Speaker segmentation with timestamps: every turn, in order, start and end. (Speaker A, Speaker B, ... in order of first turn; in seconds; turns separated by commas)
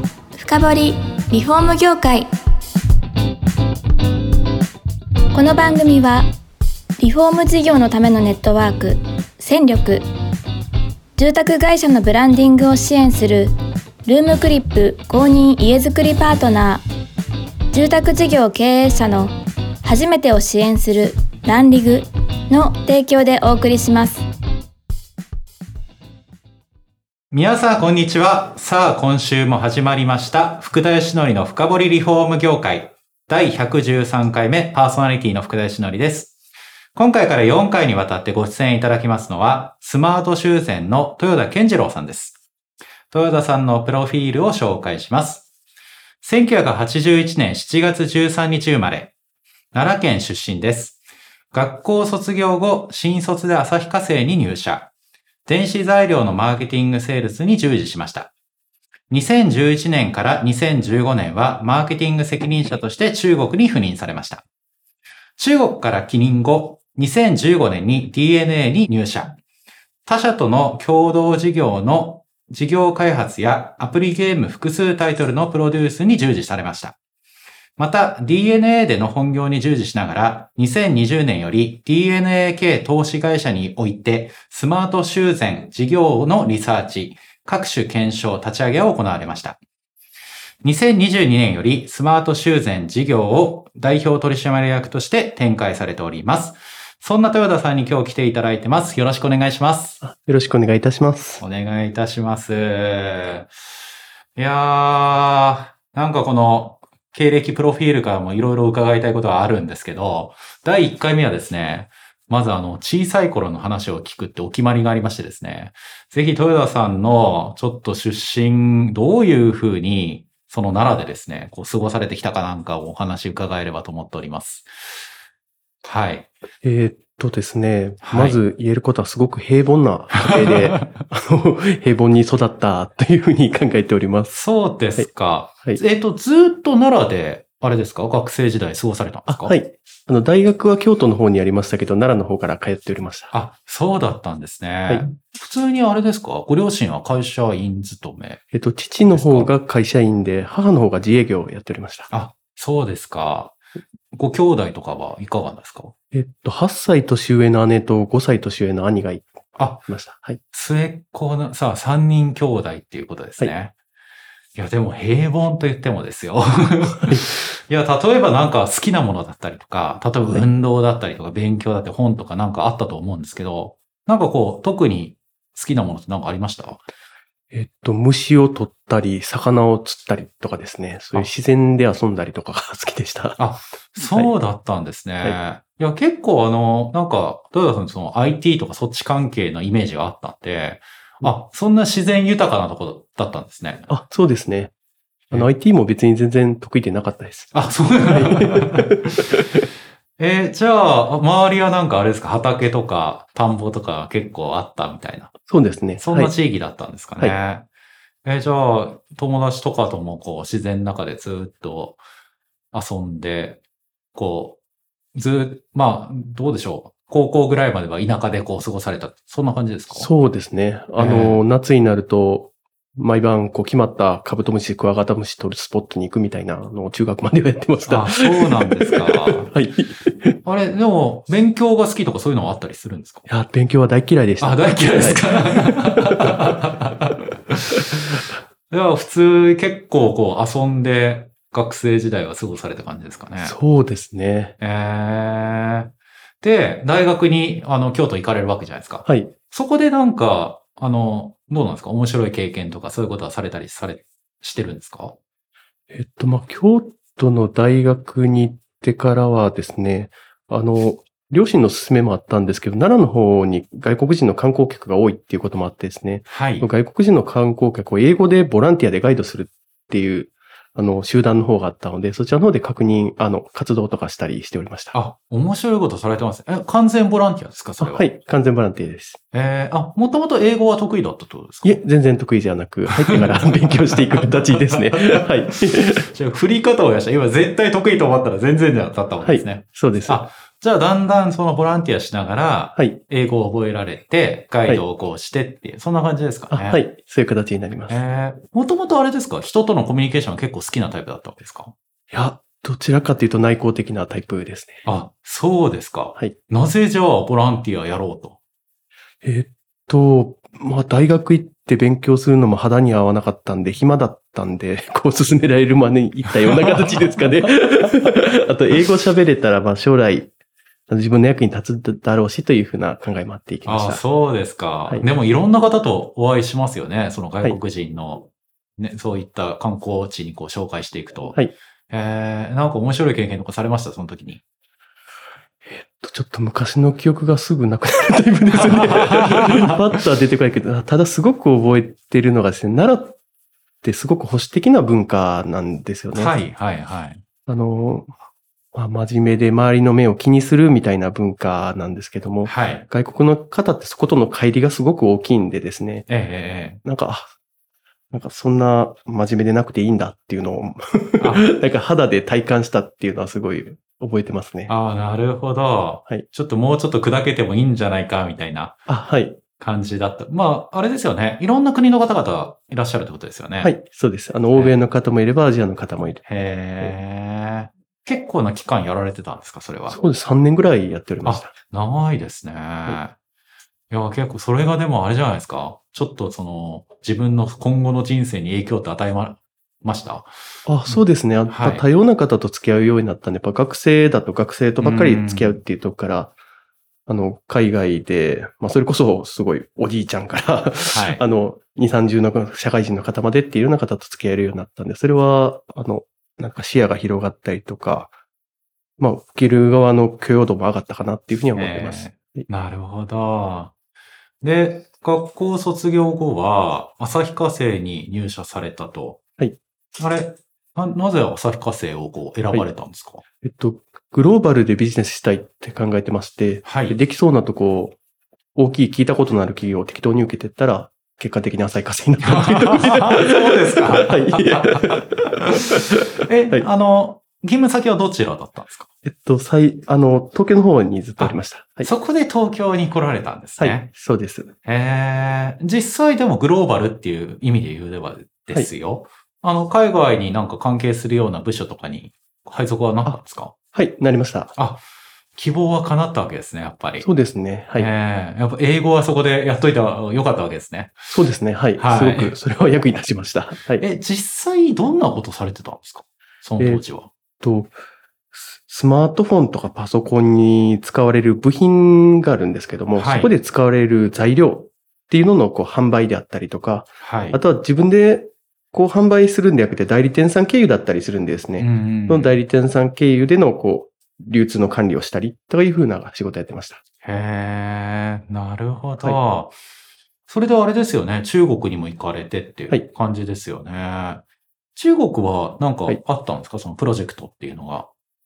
Speaker A: 0.3-2.3, Speaker A: 5.3-6.3, Speaker A: 7.0-10.0, Speaker A: 11.2-13.5, Speaker A: 14.1-16.8, Speaker A: 17.7-24.2, Speaker B: 27.3-36.4, Speaker B: 37.0-42.4, Speaker B: 43.1-45.5, Speaker B: 46.2-49.1, Speaker B: 49.7-51.0, Speaker B: 51.5-54.9, Speaker B: 55.5-58.3, Speaker B: 59.1-64.4, Speaker B: 65.4-69.4, Speaker B: 70.1-77.0, Speaker B: 77.8-89.6, Speaker B: 90.6-100.0, Speaker C: 100.0-101.4, Speaker B: 101.4-103.5, Speaker B: 104.4-125.0, Speaker B: 125.8-126.3, Speaker C: 126.6-134.4, Speaker B: 128.0-128.4, Speaker B: 130.1-131.0, Speaker B: 134.3-139.6, Speaker C: 139.3-143.3, Speaker B: 143.3-148.4, Speaker C: 148.5-152.1, Speaker B: 149.1-149.5, Speaker B: 152.1-153.6, Speaker B: 154.1-155.9, Speaker C: 156.1-160.4, Speaker B: 159.6-159.9, Speaker B: 160.5-163.7, Speaker B: 164.6-176.8, Speaker C: 177.5-184.3, Speaker B: 183.4-193.9, Speaker C: 193.9-194.7, Speaker C: 195.3-199.6, Speaker B: 197.5-199.3, Speaker B: 200.2-205.3, Speaker C: 205.5-206.3, Speaker B: 206.0-207.7, Speaker B: 208.2-212.0, Speaker B: 212.7-213.6, Speaker B: 214.2-214.6, Speaker B: 215.2-220.1, Speaker C: 219.9-230.3, Speaker B: 221.0-221.4, Speaker B: 227.9-229.5, Speaker B: 230.4-233.3, Speaker C: 233.3-236.3, Speaker B: 234.4-243.6, Speaker C: 243.4-244.5, Speaker B: 244.6-255.2, Speaker C: 249.1-249.3, Speaker C: 255.9-274.9, Speaker B: 266.3-266.7, Speaker B: 274.9-278.1, Speaker C: 277.8-279.2, Speaker B: 279.3-281.8, Speaker C: 281.6-286.1, Speaker B: 282.9-296.8, Speaker C: 289.2-290.2, Speaker C: 296.5-298.0, Speaker B: 297.9-301.7, Speaker C: 302.1-304.9, Speaker B: 304.8-308.4, Speaker C: 309.2-320.3, Speaker B: 316.5-317.4, Speaker C: 320.9-324.0, Speaker B: 323.6-334.4, Speaker C: 335.7-343.2, Speaker B: 338.6-339.7, Speaker C: 343.8-346.4, Speaker B: 346.1-347.2, Speaker C: 347.5-348.1, Speaker C: 348.7-356.1, Speaker B: 352.4-352.9, Speaker B: 356.1-356.8, Speaker C: 356.8-357.3, Speaker C: 358.1-364.7, Speaker B: 361.2-361.5, Speaker B: 364.7-368.8, Speaker C: 368.9-369.4, Speaker B: 369.6-373.7, Speaker C: 373.6-376.2, Speaker B: 374.5-374.8, Speaker B: 376.3-380.0, Speaker C: 379.9-381.5, Speaker B: 381.2-383.1, Speaker B: 383.9-390.3, Speaker C: 390.7-396.3, Speaker B: 390.9-391.8, Speaker B: 394.8-395.6, Speaker C: 397.1-408.1, Speaker B: 400.9-401.2, Speaker C: 409.0-412.5, Speaker B: 411.5-413.7, Speaker B: 414.4-419.2, Speaker B: 420.0-423.2, Speaker C: 423.4-428.0, Speaker B: 426.6-427.0, Speaker C: 428.6-436.7, Speaker B: 432.2-438.9, Speaker C: 439.0-441.9, Speaker B: 441.2-443.9, Speaker C: 443.6-444.5, Speaker B: 444.6-453.5, Speaker C: 453.7-454.5, Speaker B: 454.6-454.8, Speaker B: 455.4-457.1, Speaker C: 457.0-457.9, Speaker B: 457.8-461.1, Speaker C: 461.1-463.9, Speaker B: 461.8-462.4, Speaker B: 463.8-467.1, Speaker C: 466.6-466.9, Speaker C: 467.4-467.7, Speaker C: 468.3-486.8, Speaker B: 472.9-473.3, Speaker B: 477.0-477.4, Speaker B: 481.6-482.4, Speaker B: 487.0-489.6, Speaker B: 490.3-494.2, Speaker B: 494.8-497.9